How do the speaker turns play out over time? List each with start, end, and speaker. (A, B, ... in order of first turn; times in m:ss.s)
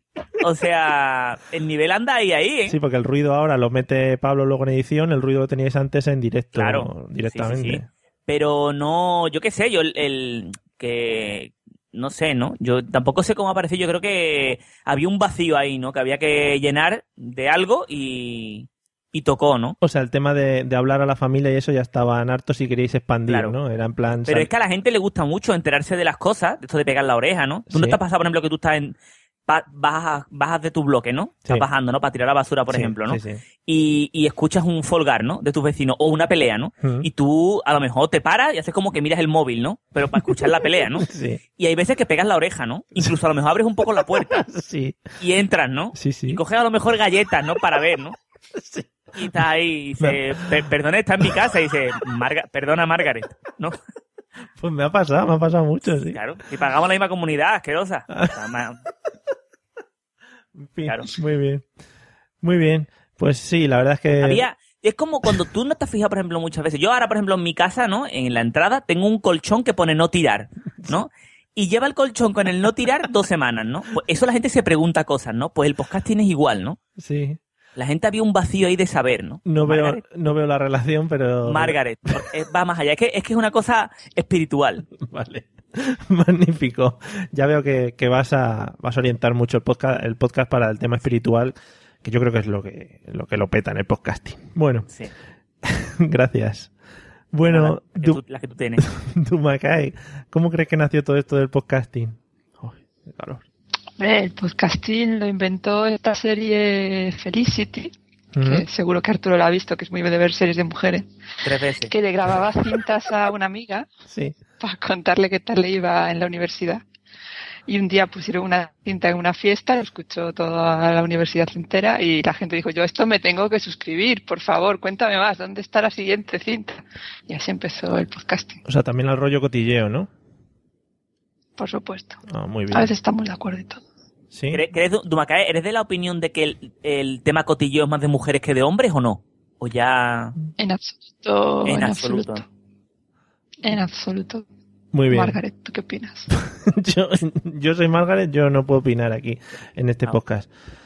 0:00.4-0:02.8 A
0:02.7-0:07.9 B
0:06.6-0:19.8 A
0:19.8-0:24.5 B
0:23.3-0:23.6 A
0:24.3-0:29.0 A
0:27.7-0:28.0 B
0:29.5-0:44.4 A
0:32.7-0:33.4 B
0:36.8-0:37.1 B
0:41.0-0:41.4 B
0:44.2-0:45.0 B
0:45.2-0:48.2 A
0:46.0-0:46.4 B
0:48.6-0:48.8 B
0:49.2-0:53.8 A
0:50.0-0:50.2 B
0:54.6-0:56.2 B
0:56.1-0:58.8 A
1:00.6-1:01.6 B
1:02.4-1:04.5 B
1:04.2-1:16.8 A
1:17.0-1:17.4 B
1:17.8-1:20.0 A
1:19.5-1:21.8 B
1:21.4-1:24.9 A
1:25.0-1:34.9 B
1:35.6-1:36.7 B
1:37.3-1:38.2 B
1:37.5-1:38.9 A
1:38.8-1:43.4 B
1:44.0-1:51.0 C
1:48.4-1:48.7 B
1:51.4-1:51.9 A
1:51.9-1:53.9 C
1:54.1-1:54.4 B
1:54.6-1:56.8 C
1:57.7-2:08.6 C
2:08.6-2:10.1 B
2:11.6-2:12.2 C
2:12.3-2:12.9 B
2:12.7-2:13.8 C
2:14.3-2:14.6 B
2:14.5-2:20.4 A
2:20.6-2:22.4 C
2:21.6-2:22.4 A
2:23.6-2:24.4 C
2:24.9-2:25.4 B
2:25.1-2:26.3 C
2:26.4-2:30.5 B